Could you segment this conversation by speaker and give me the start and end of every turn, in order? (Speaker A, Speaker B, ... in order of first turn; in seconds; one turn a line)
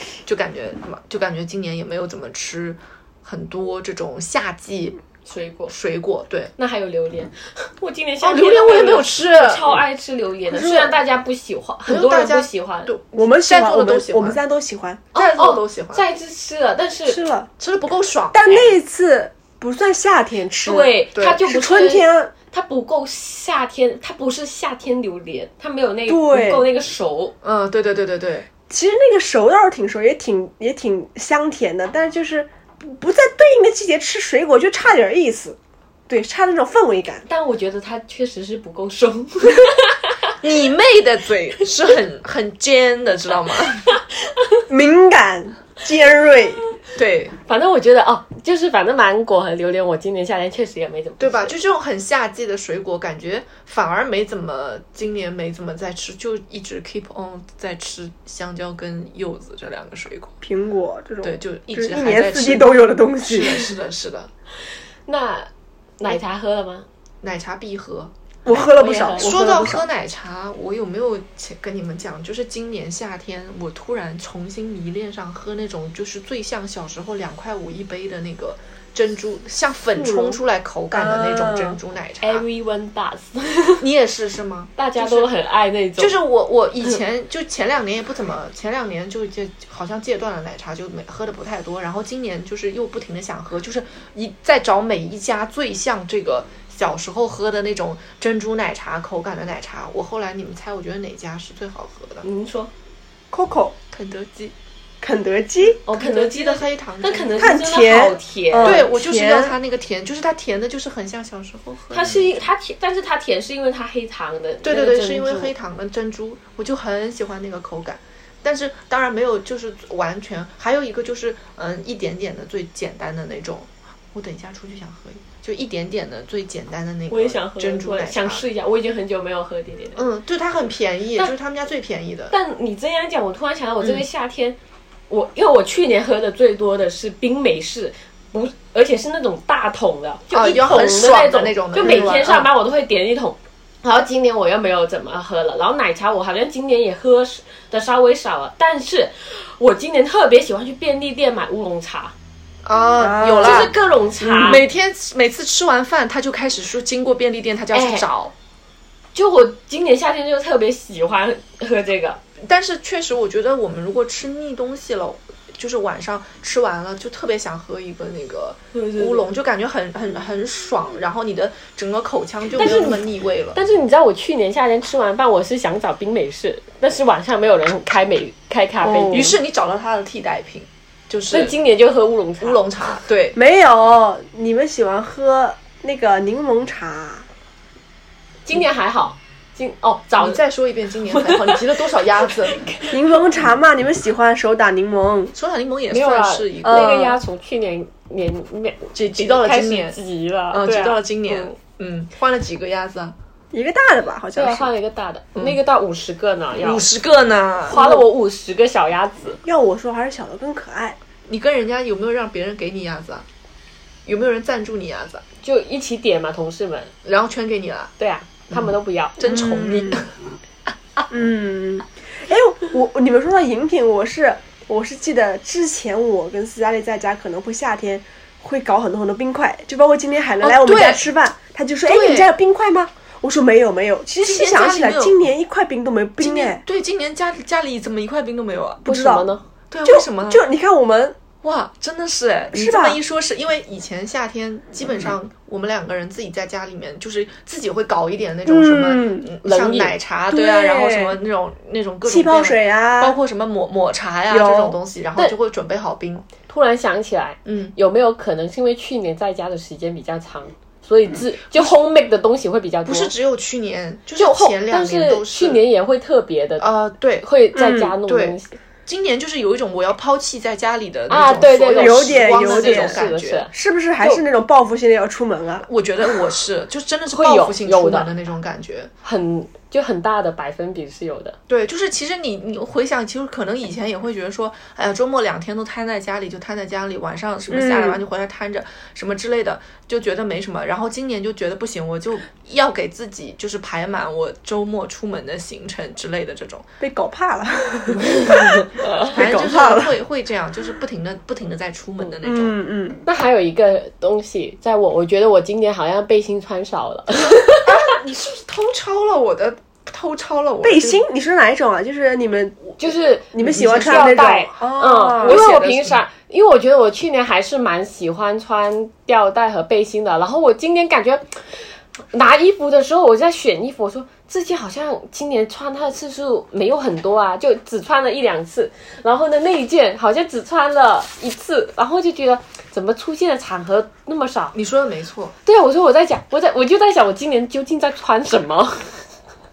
Speaker A: 0.2-5.0
Speaker B: 5.2-5.7
Speaker A: 5.7-6.5
Speaker B: 6.6-12.9
Speaker A: 8.2-9.8
Speaker C: 10.5-11.0
Speaker A: 11.8-14.4
Speaker C: 13.1-15.0
Speaker A: 15.1-16.0
Speaker B: 15.1-17.2
Speaker C: 17.1-17.5
Speaker A: 17.6-18.7
Speaker C: 18.3-22.3
Speaker B: 20.6-27.3
Speaker A: 21.1-21.4
Speaker C: 26.1-26.6
Speaker A: 27.4-28.5
Speaker C: 28.7-35.6
Speaker C: 36.1-37.2
Speaker B: 37.3-40.2
Speaker A: 40.4-43.9
Speaker C: 44.7-46.6
Speaker A: 47.0-47.4
Speaker B: 47.5-51.5
Speaker A: 51.2-60.3
Speaker C: 60.4-63.7
Speaker A: 61.2-64.3
Speaker B: 65.1-66.8
Speaker A: 67.2-68.1
Speaker C: 68.4-69.8
Speaker B: 68.5-69.3
Speaker A: 69.2-82.4
Speaker C: 80.0-80.4
Speaker C: 80.9-81.8
Speaker B: 82.2-83.8
Speaker A: 83.8-85.3
Speaker B: 84.8-86.2
Speaker A: 86.0-102.2
Speaker B: 102.2-102.7
Speaker C: 103.3-103.7
Speaker A: 103.9-104.5
Speaker C: 105.0-105.8
Speaker A: 105.8-107.6
Speaker B: 105.8-108.8
Speaker C: 107.4-109.5
Speaker A: 108.6-112.3
Speaker B: 111.9-115.5
Speaker A: 114.6-128.4
Speaker B: 127.1-130.0
Speaker A: 129.9-132.3
Speaker B: 132.3-134.6
Speaker B: 135.1-152.1
Speaker A: 140.3-142.5
Speaker A: 152.6-153.7
Speaker C: 153.0-154.5
Speaker B: 153.4-154.6
Speaker A: 154.4-158.3
Speaker B: 157.7-158.0
Speaker B: 159.1-162.2
Speaker A: 162.4-173.6
Speaker B: 168.7-169.3
Speaker B: 172.5-179.3
Speaker C: 178.8-179.4
Speaker A: 179.1-181.6
Speaker B: 181.3-182.6
Speaker A: 182.4-183.4
Speaker C: 183.3-187.3
Speaker B: 188.4-190.4
Speaker A: 190.2-192.7
Speaker B: 191.1-193.0
Speaker C: 192.9-195.3
Speaker A: 195.3-197.2
Speaker B: 195.9-201.5
Speaker C: 196.7-197.0
Speaker A: 198.9-200.0
Speaker A: 200.5-203.2
Speaker C: 203.5-204.7
Speaker B: 204.3-206.9
Speaker A: 206.6-207.8
Speaker B: 207.7-209.4
Speaker C: 209.4-211.0
Speaker A: 211.3-213.2
Speaker A: 214.1-215.2
Speaker B: 215.4-216.9
Speaker A: 217.0-217.9
Speaker B: 218.0-219.2
Speaker A: 218.5-220.1
Speaker C: 219.2-220.0
Speaker C: 221.1-236.6
Speaker A: 230.4-231.1
Speaker A: 231.8-232.3
Speaker A: 234.2-235.2
Speaker A: 236.2-238.8
Speaker B: 238.8-239.4
Speaker C: 238.8-239.3
Speaker A: 239.7-240.4
Speaker C: 239.8-241.2
Speaker A: 241.4-256.3
Speaker C: 242.5-243.0
Speaker C: 248.4-249.3
Speaker B: 249.4-249.9
Speaker C: 250.3-251.2
Speaker C: 252.0-253.2
Speaker C: 254.3-254.8
Speaker B: 256.4-263.1
Speaker A: 257.4-257.7
Speaker A: 261.5-261.8
Speaker A: 262.8-265.6
Speaker B: 264.1-266.7
Speaker A: 266.6-267.3
Speaker B: 267.2-268.6
Speaker C: 267.5-267.9
Speaker A: 268.0-273.5
Speaker B: 271.1-274.2
Speaker C: 271.8-273.0
Speaker C: 273.5-275.7
Speaker A: 275.6-278.9
Speaker B: 277.1-278.1
Speaker B: 279.0-281.4
Speaker A: 281.5-296.7
Speaker C: 287.5-288.0
Speaker C: 296.8-300.0
Speaker B: 298.3-299.1
Speaker A: 299.1-302.5
Speaker C: 302.2-303.0
Speaker B: 303.0-307.9
Speaker A: 307.6-311.0
Speaker C: 310.6-312.6
Speaker B: 312.8-334.5
Speaker C: 313.3-315.4
Speaker A: 313.4-314.1
Speaker A: 315.2-316.0
Speaker A: 334.5-335.3
Speaker B: 335.4-339.0